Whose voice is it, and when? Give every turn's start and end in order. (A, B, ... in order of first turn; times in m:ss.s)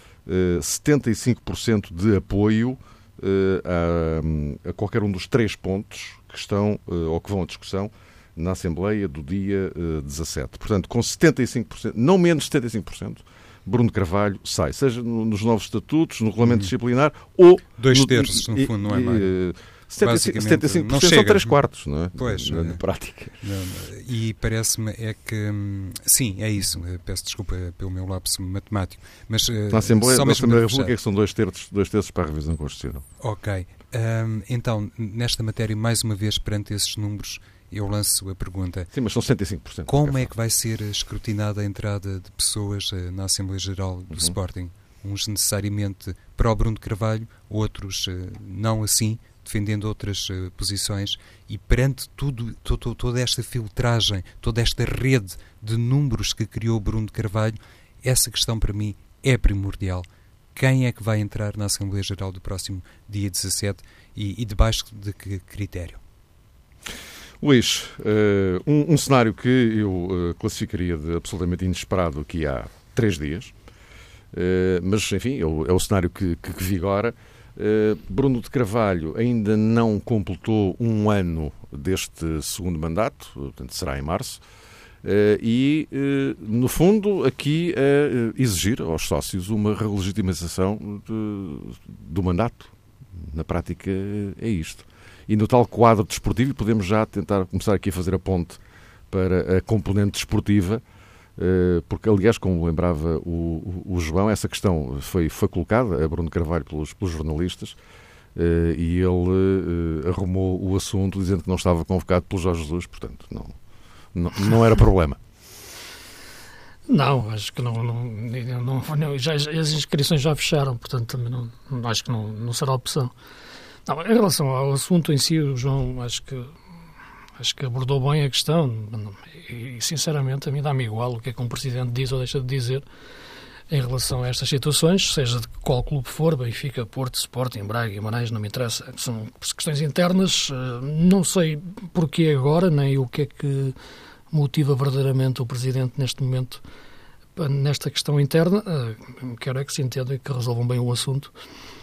0:00.2-0:23.4 A
0:16.4-0:16.7 B
0:17.8-0:19.3 B
0:20.0-0:21.6 B
0:22.2-0:22.8 B
0:23.4-0:30.9 B
0:29.7-0:33.0 A
0:33.2-0:38.9 B
0:38.9-0:40.3 A
0:39.9-1:06.0 B
1:07.4-1:13.5 A
1:14.3-1:24.4 A
1:25.0-1:40.8 A
1:41.4-1:47.8 A
1:48.3-1:53.6 A
1:54.1-1:55.2 A
1:56.9-2:03.1 C
2:03.9-2:06.6 C
2:07.4-2:12.8 C
2:13.7-2:23.8 C
2:24.3-2:26.6 C
2:27.4-2:31.3 C